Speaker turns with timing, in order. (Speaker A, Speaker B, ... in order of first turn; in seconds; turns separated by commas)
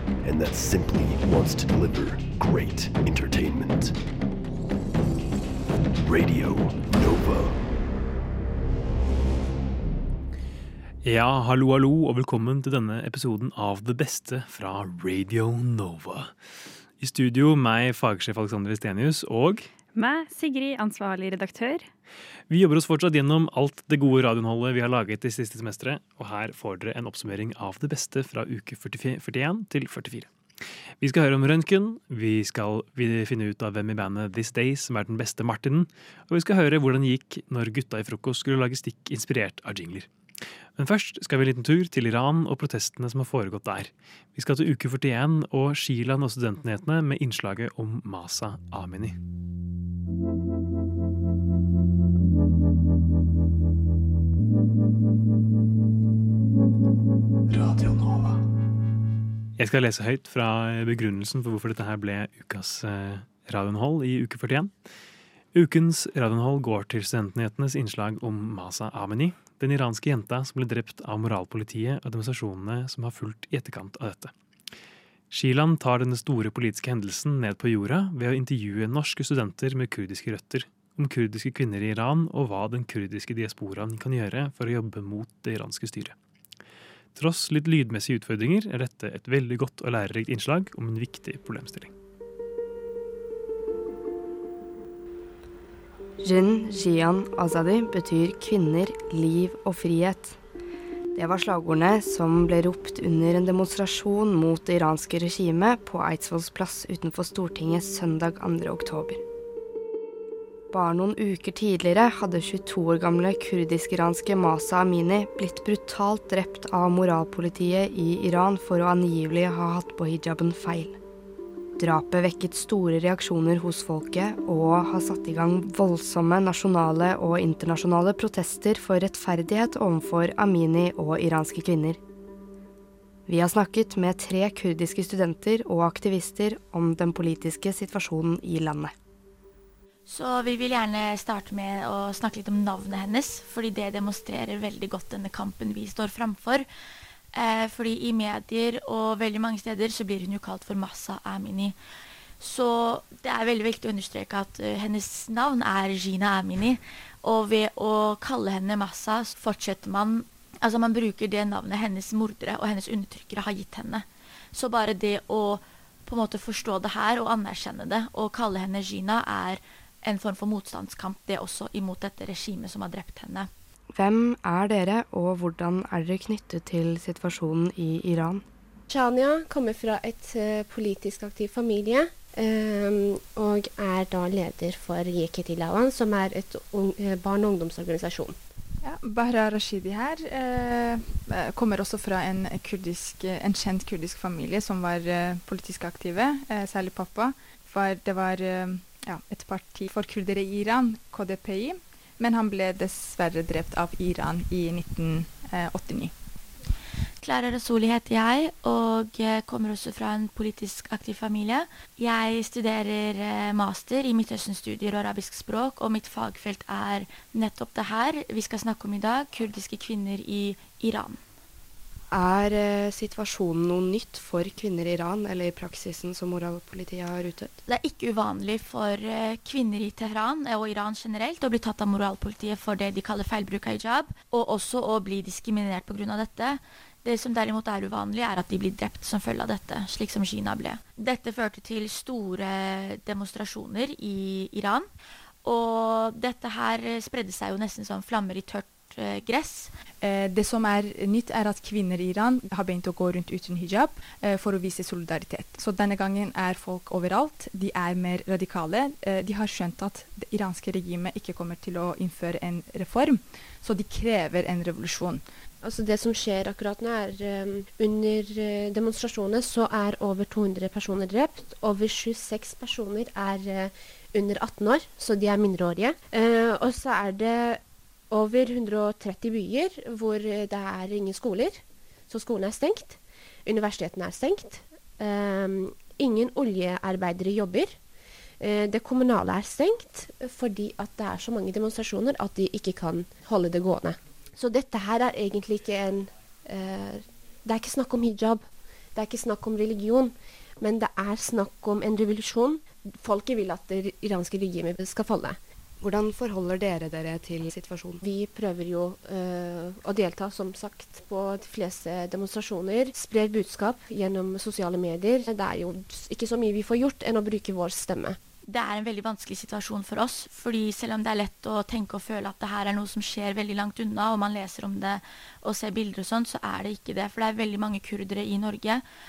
Speaker A: 0.2-4.0, Speaker A: 6.0-7.6, Speaker B: 11.0-16.3, Speaker B: 17.0-19.7, Speaker C: 19.9-21.9, Speaker B: 22.5-30.3, Speaker B: 31.0-40.1, Speaker B: 40.8-49.1, Speaker A: 57.5-58.3, Speaker B: 59.6-64.7, Speaker B: 65.5-74.3, Speaker B: 75.3-86.1, Speaker B: 87.2-91.9, Speaker D: 96.2-100.4, Speaker D: 101.1-109.2, Speaker D: 110.7-121.0, Speaker D: 121.8-132.0, Speaker D: 133.3-138.9, Speaker E: 140.1-146.7, Speaker E: 147.3-151.8, Speaker E: 152.4-173.5, Speaker D: 173.9-178.4, Speaker F: 178.9-188.4, Speaker G: 188.8-206.1, Speaker E: 207.2-221.2, Speaker D: 222.1-227.6, Speaker E: 227.7-244.9, Speaker E: 245.4-249.7, Speaker G: 250.0-265.3, Speaker F: 265.6-287.8, Speaker F: 288.4-305.4, Speaker D: 305.8-308.0, Speaker F: 308.0-318.2, Speaker E: 318.4-328.8